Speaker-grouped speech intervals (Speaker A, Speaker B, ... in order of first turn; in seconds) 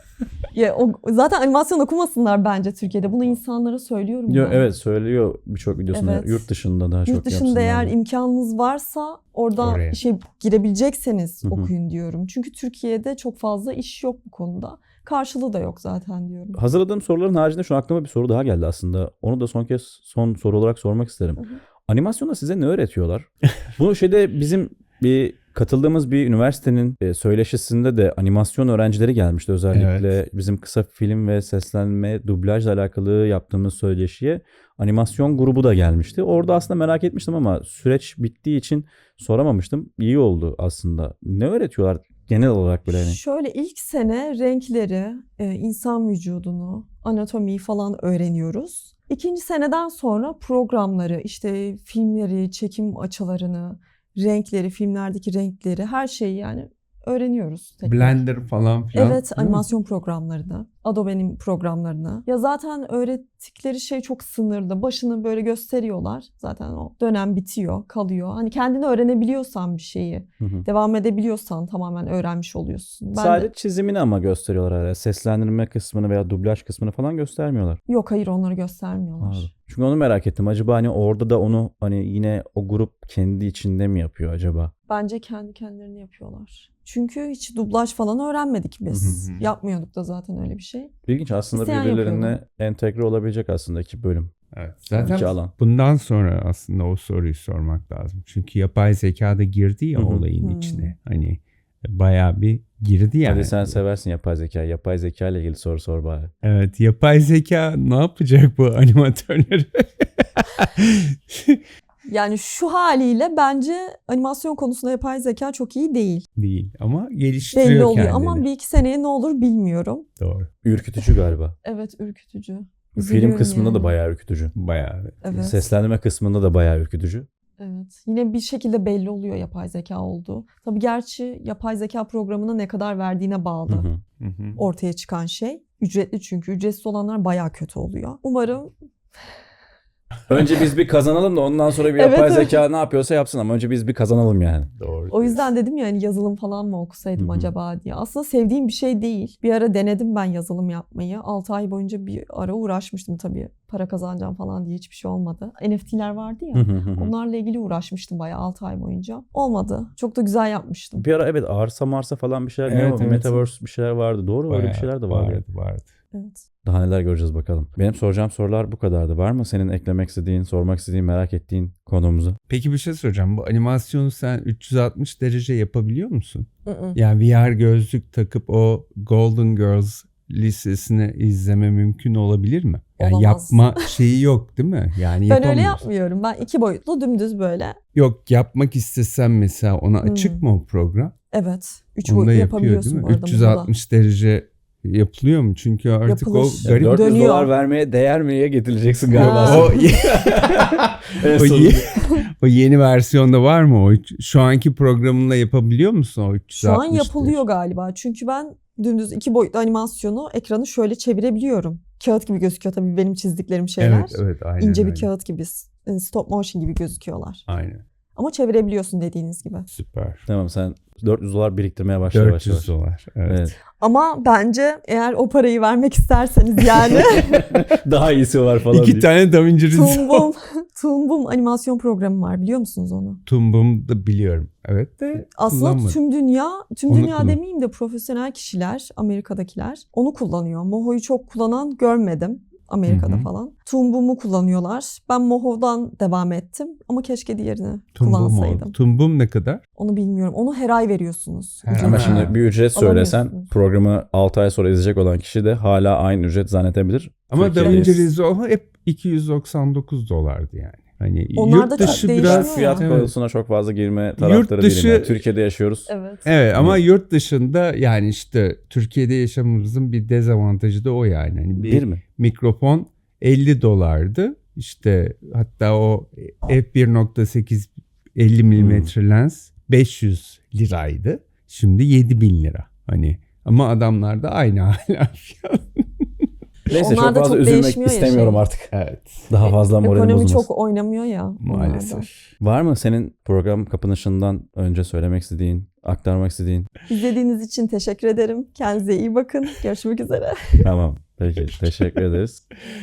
Speaker A: 0.5-4.7, 5.9-6.5, 7.1-16.6, 42.9-58.2, 58.9-73.5, 77.9-79.5, 84.9-90.9, 91.5-92.4, 100.4-100.9, 112.1-116.3, 117.5-120.1, 121.6-124.0, 125.2-125.6, 127.6-133.9, 134.6-138.7, 141.9-142.6, 145.1-161.1, 166.1-166.4, 176.7-177.0, 183.0-183.9, 185.3-187.8, 190.0-190.4, 191.3-193.7, 196.1-197.5, 199.2-199.8, 206.5-217.4, 218.2-219.7, 223.8-227.3, 229.7-233.2, 235.3-248.8, 249.8-253.5, 261.4-262.9, 265.9-266.3, 286.7-288.4, 289.4-292.1, 296.9-300.7
Speaker B: 4.3-8.0, 11.4-11.7, 16.5-43.2, 70.4-70.7, 73.2-77.8, 79.2-84.7, 88.9-89.2, 91.1-94.3, 94.9-95.5, 100.0-100.3, 103.2-106.3, 120.6-121.6, 123.0-124.5, 125.3-127.3, 133.7-134.0, 140.3-144.7, 147.2-147.5, 156.5-157.1, 161.0-165.4, 166.7-172.4, 196.6-202.0, 220.3-222.7, 223.3-223.5, 227.1-229.1, 251.8-258.1, 261.8-265.9, 266.6-266.8, 271.6-272.0, 278.6-278.9, 286.7-288.7, 289.3-290.5, 292.4-296.7, 300.6-302.4
Speaker C: 9.6-10.0, 29.7-30.1, 57.8-59.6, 89.0-89.5, 94.5-103.8, 106.4-111.6, 116.4-118.5, 120.2-120.5, 124.5-125.2, 134.2-134.6, 144.8-145.4, 162.7-163.4, 164.5-165.9, 172.5-185.8, 187.9-191.1, 192.1-197.0, 199.1-207.4, 213.8-215.1, 217.5-217.8, 219.7-220.2, 222.1-223.5, 228.7-230.3, 233.3-236.0, 236.9-237.4, 242.9-243.3, 248.0-249.6, 251.6-252.3, 257.3-263.1, 264.2-265.2, 266.3-286.3, 288.7-289.3, 291.4-292.3